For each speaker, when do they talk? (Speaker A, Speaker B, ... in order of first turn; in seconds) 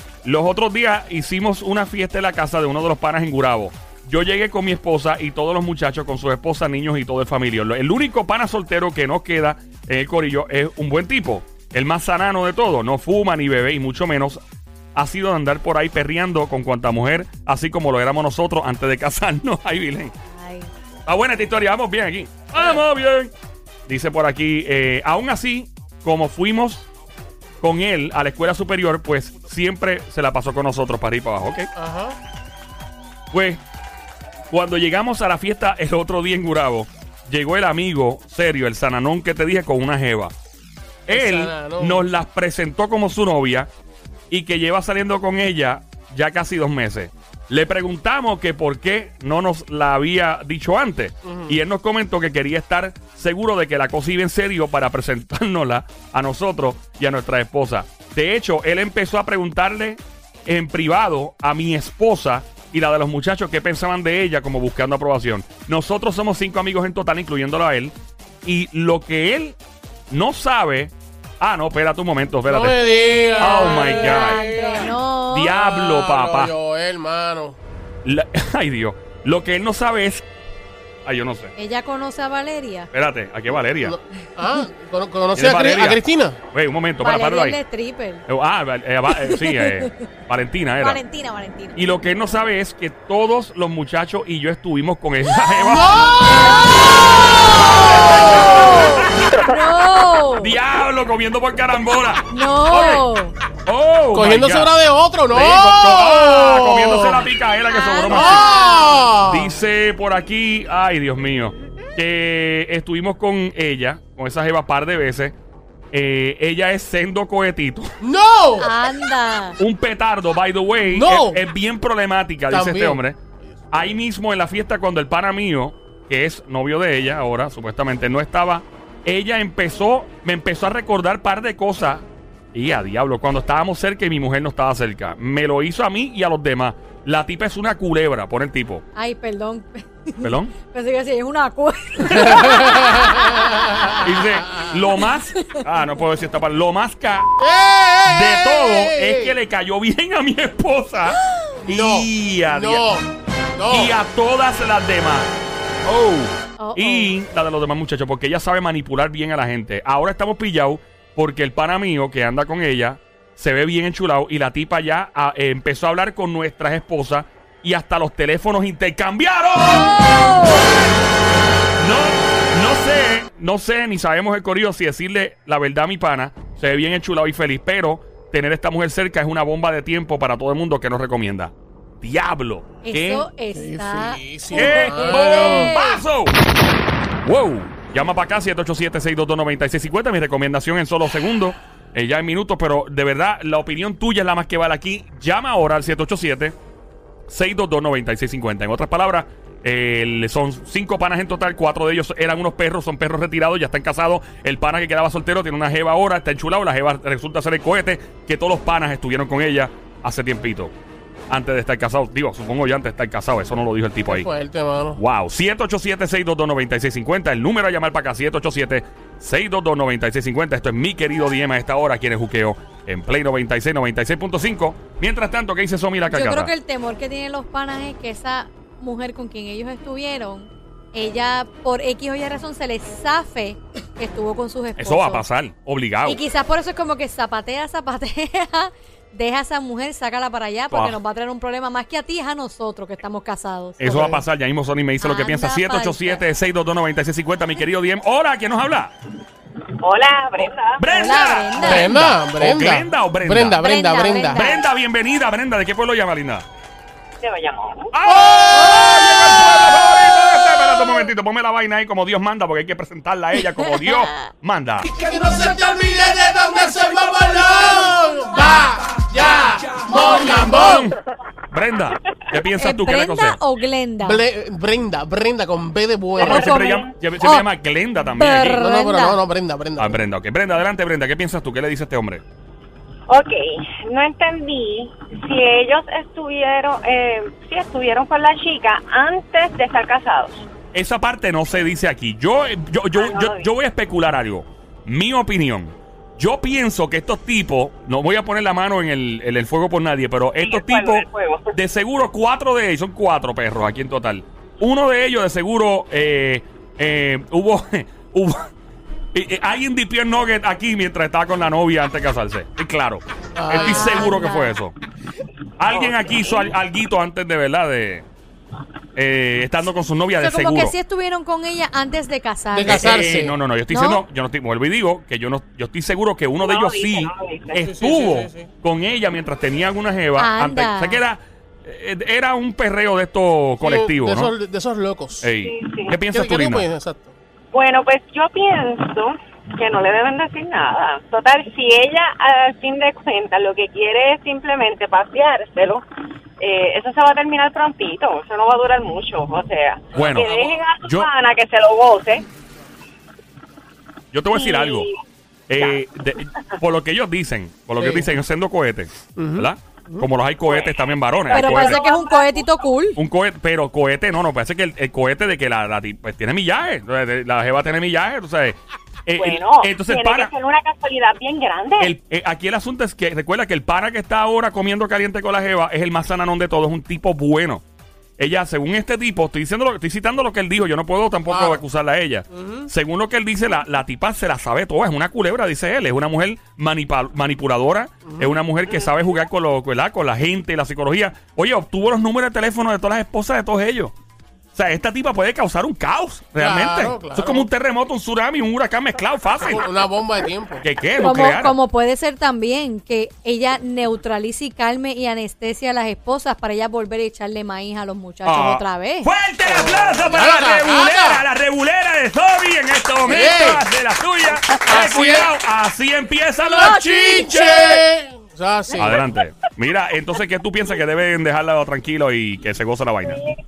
Speaker A: 0.2-14.4, 14.9-20.1, 21.1-23.3, 23.9-26.9, 27.6-31.7, 33.3-33.6, 34.5-40.3, 41.1-43.7, 44.3-69.6, 70.1-72.8, 73.4-74.4, 75.3-76.5, 78.0-80.3, 81.0-81.5, 82.9-83.9, 85.3-86.0, 86.5-87.6, 88.3-91.0, 91.8-96.2, 97.4-99.4, 100.4-103.0, 103.7-104.7, 105.3-108.6, 109.2-115.3, 115.9-117.9, 119.6-123.2, 123.7-138.8, 140.2-140.5, 142.0-142.4, 143.9-147.3, 148.0-152.8, 153.7-155.3, 155.8-170.6, 171.8-183.2, 184.5-186.3, 187.2-196.6, 197.3-210.7, 211.3-214.3, 214.9-226.5, 234.8-236.2, 240.7-241.0, 243.8-248.9, 250.4-253.7, 254.2-256.4, 257.9-264.9, 269.9-270.9, 271.5-273.4, 276.2-278.6, 279.8-282.2, 290.7-308.5, 309.1-314.7, 315.6-318.1, 318.9-320.7, 322.6-334.3, 335.2-336.7, 349.9-351.1, 354.1-354.9, 355.5-361.8, 362.9-370.3, 371.8-377.6, 378.2-393.9, 394.5-399.6, 400.6-401.5, 408.2-417.8, 418.8-423.2
Speaker B: 20.3-20.7, 73.0-75.5, 81.5-82.9, 87.0-88.2, 89.1-90.1, 90.8-91.8, 96.1-100.5, 102.3-103.3, 107.7-109.1, 118.6-119.6, 138.9-143.9, 144.9-145.6, 156.6-157.1, 182.8-186.0, 226.1-235.2, 236.0-244.1, 245.0-246.2, 250.9-252.0, 253.6-254.6, 263.6-263.9, 272.6-274.2, 276.2-277.5, 278.1-279.2, 313.6-314.6, 320.1-323.0, 323.7-324.0, 330.2-331.0, 361.3-363.0, 401.0-409.1, 416.6-417.2
Speaker C: 31.8-32.2, 41.1-42.1, 51.2-51.6, 72.5-77.6, 83.8-86.4, 95.5-97.2, 97.9-98.4, 104.1-107.2, 108.1-109.5, 118.0-118.7, 120.8-121.4, 122.5-123.9, 142.4-143.8, 147.4-149.4, 151.6-153.9, 183.5-185.7, 214.1-215.0, 243.8-244.1, 251.6-254.6, 258.0-259.6, 264.9-270.9, 274.0-276.5, 278.5-280.0, 313.4-314.1, 322.5-323.4, 327.6-328.5, 333.6-335.3, 336.1-337.1, 357.8-358.1, 359.1-360.1, 381.3-381.6, 382.3-382.7, 388.1-388.3, 396.4-397.5, 399.4-400.6, 409.5-411.2, 413.0-413.6, 414.7-415.3, 416.4-419.1
Speaker D: 249.8-250.8, 257.2-257.9, 276.1-276.9, 283.1-290.4, 292.9-293.5, 300.4-301.5, 326.4-327.6, 335.4-335.9, 337.5-345.8, 346.4-352.2, 354.3-355.0, 355.6-355.8, 360.4-362.6, 369.1-371.9, 423.0-423.4